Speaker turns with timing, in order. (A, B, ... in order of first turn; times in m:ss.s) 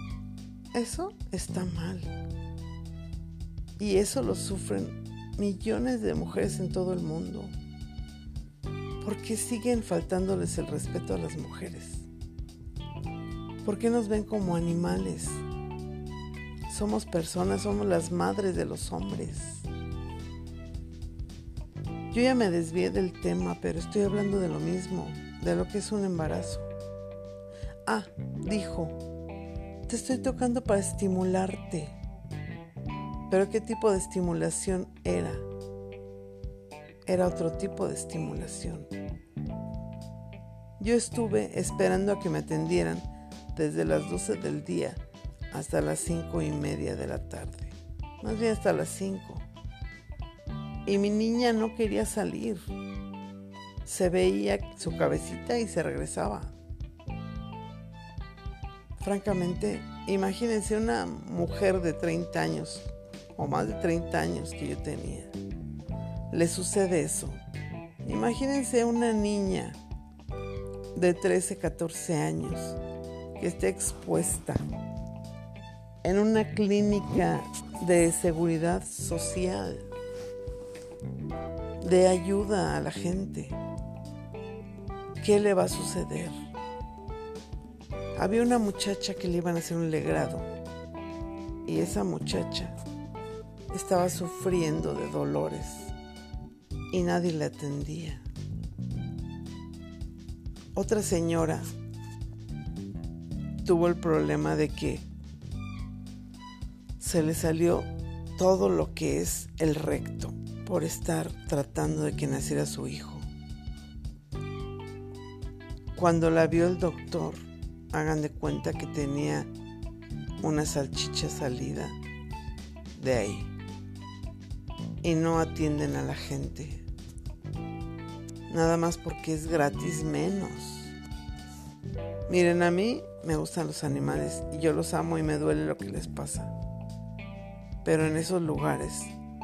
0:00.7-0:02.1 A
0:03.8-0:07.6 A
0:09.0-0:12.1 A
0:13.6-0:15.4 A
0:16.7-0:19.7 A
0:22.1-0:26.7 A
0:27.9-0:29.0 A
0:29.9-0:32.0 A
0:33.3-0:35.5 A
0:37.1-0:38.9 A
0:40.8-0:49.5 A
0:50.8-0:52.7 A
0:53.8-0:56.5 A
0:59.0-1:05.3 A
1:06.3-1:07.4 A
1:08.0-1:09.8 A
1:11.0-1:12.8 A
1:13.4-1:14.6 A
1:16.0-1:19.9 A
1:21.8-1:23.6 A
1:25.2-1:26.5 A
1:28.2-1:30.5 A
1:31.6-1:32.8 A
1:33.7-1:36.0 A
1:36.9-1:38.3 A
1:40.8-1:41.7 A
1:43.6-1:45.1 A
1:47.0-1:53.3 A
1:55.9-1:59.5 A
2:00.4-2:02.0 A
2:03.0-2:03.6 A
2:05.0-2:06.8 A
2:08.5-2:10.9 A
2:12.3-2:16.5 A
2:17.8-2:19.1 A